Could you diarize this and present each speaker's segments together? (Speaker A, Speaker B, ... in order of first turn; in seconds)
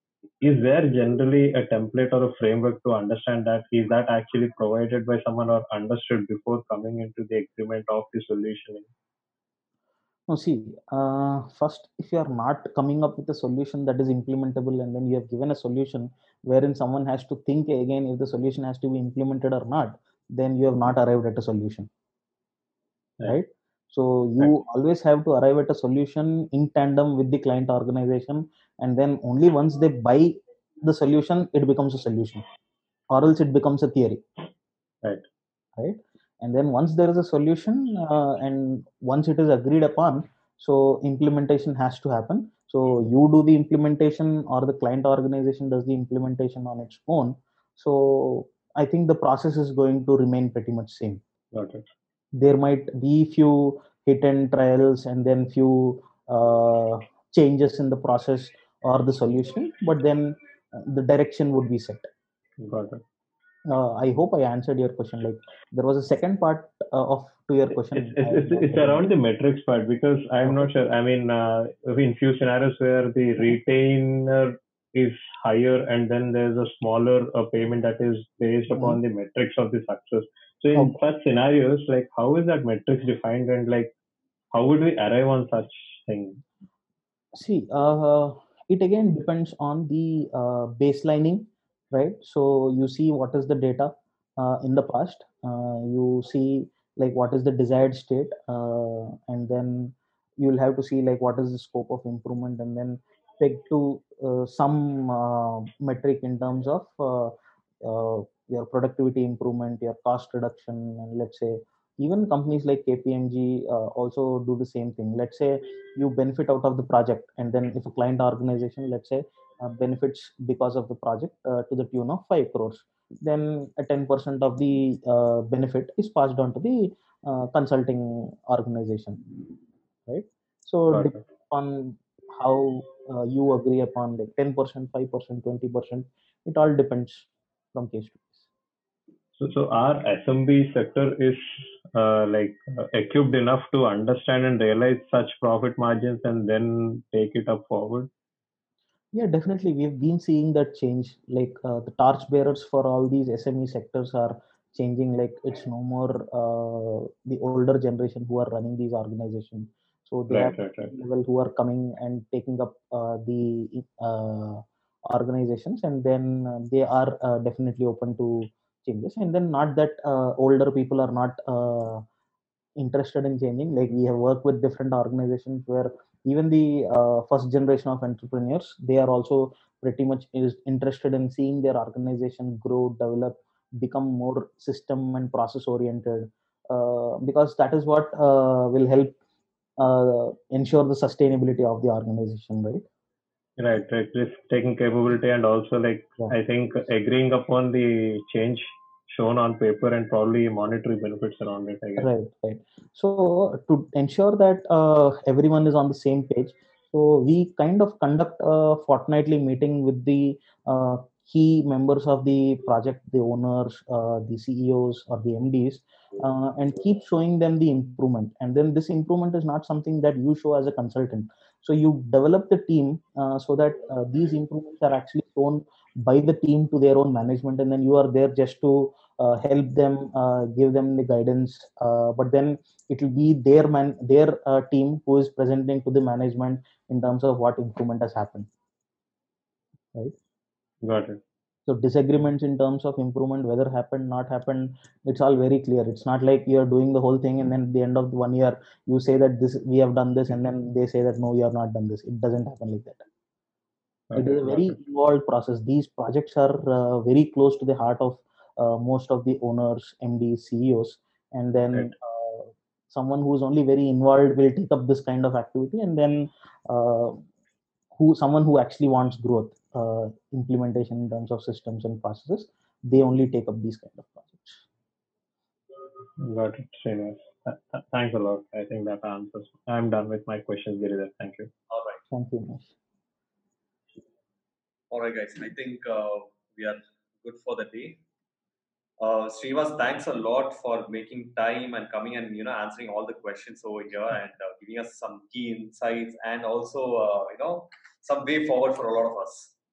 Speaker A: 0.4-8.9, 51.5-51.9, 62.6-63.0, 67.9-83.9, 84.5-86.4, 130.9-131.2, 139.4-148.1, 160.3-161.0, 193.6-202.1, 240.8-241.2, 254.1-254.8, 276.2-281.5
Speaker B: 10.3-21.9, 23.2-32.4, 33.1-34.2, 35.8-51.2, 52.4-62.1, 63.7-69.0, 70.5-70.7, 78.7-79.0, 87.3-129.2, 130.1-138.5, 149.1-172.1, 172.8-189.2, 189.8-192.8, 202.0-238.5, 241.7-253.1, 254.2-267.2, 268.0-274.6, 282.1-282.7
Speaker C: 281.7-282.0, 284.9-288.0, 289.0-299.5